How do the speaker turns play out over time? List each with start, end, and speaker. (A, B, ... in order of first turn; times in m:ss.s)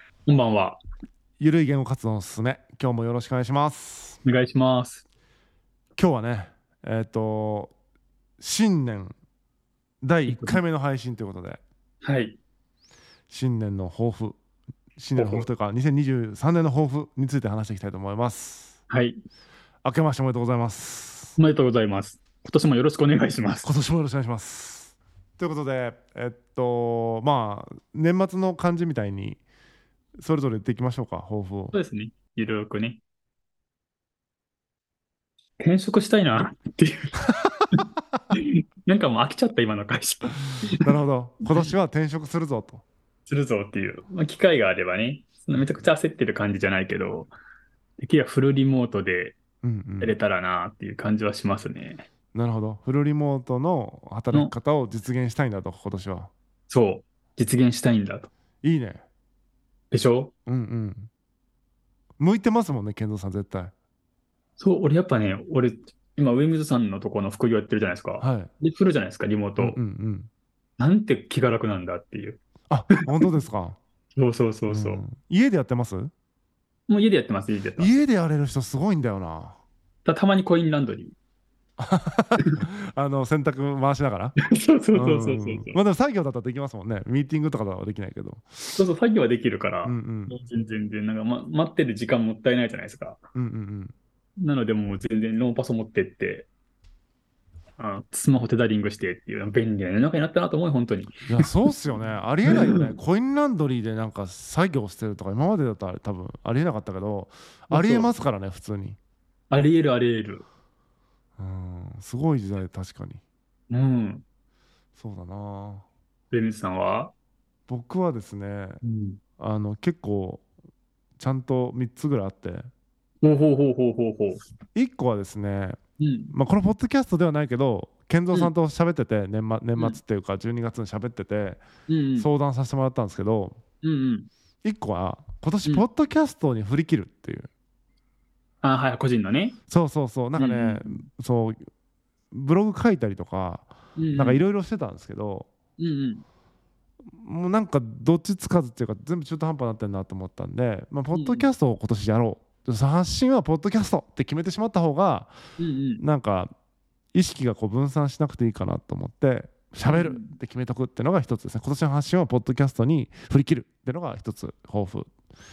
0:00.3-0:00.8 A
0:01.4-0:04.2 B
0:04.2-0:05.0 A
0:06.0-0:07.7 B
0:08.4-0:09.2 B
0:10.0-0:11.6 B
0:10.3-0:10.6 A
0:12.0-0:12.4 A
0:13.3-0:14.4 B
0:15.0-0:18.8 B
0:15.2-0:15.5 A
0:18.9-0:19.2 A
0:19.8-0:21.4 B
0:21.4-0:23.7 A
0:23.6-0:29.4 B
0:30.2-0:31.8 B
0:31.7-0:33.0 A
0:35.6-0:37.1 A
0:38.3-0:40.8 A
0:40.7-0:42.8 B
0:43.3-0:47.3 A
0:48.0-0:49.4 A
0:49.6-0:50.2 B
0:50.0-0:52.1 A
0:52.3-0:56.3 B
0:56.7-0:58.3 A
0:58.6-0:59.0 B
0:59.9-1:00.3 A
1:00.5-1:01.1 B
1:02.2-1:03.7 B
1:04.6-1:09.8 A
1:08.2-1:08.5 B
1:09.6-1:10.3 B
1:10.8-1:12.4 A
1:12.7-1:13.8 B
1:13.0-1:13.3 A
1:14.2-1:15.0 A
1:14.7-1:16.1 B
1:16.9-1:18.0 A
1:17.8-1:19.6 B
1:20.0-1:21.2 A
1:21.8-1:24.4 B
1:24.5-1:25.8 A
1:25.0-1:28.8 B
1:28.8-1:33.2 A
1:29.8-1:30.4 B
1:33.4-1:33.9 B
1:34.4-1:36.5 A
1:37.8-1:41.5 A
1:41.3-1:49.0 B
1:42.5-1:42.9 A
1:47.7-1:48.1 A
1:49.5-1:50.4 A
1:51.4-1:53.2 B
1:53.7-1:54.2 A
1:55.0-1:55.9 B
1:56.3-1:57.1 A
1:57.7-1:58.8 B
1:58.8-1:59.2 A
1:59.4-2:00.4 B
2:01.2-2:02.7 B
2:03.2-2:04.4 A
2:04.8-2:05.8 B
2:06.0-2:06.3 A
2:06.3-2:11.6 B
2:11.9-2:12.3 A
2:12.2-2:13.6 B
2:13.8-2:14.3 A
2:14.6-2:17.5 B
2:18.6-2:19.6 A
2:19.7-2:21.6 B
2:20.4-2:21.0 A
2:22.3-2:25.5 B
2:24.0-2:24.4 A
2:25.8-2:26.2 A
2:27.1-2:35.3 B
2:31.1-2:31.5 A
2:35.6-2:36.0 A
2:36.0-2:36.5 B
2:37.1-2:45.1 B
2:39.9-2:40.4 A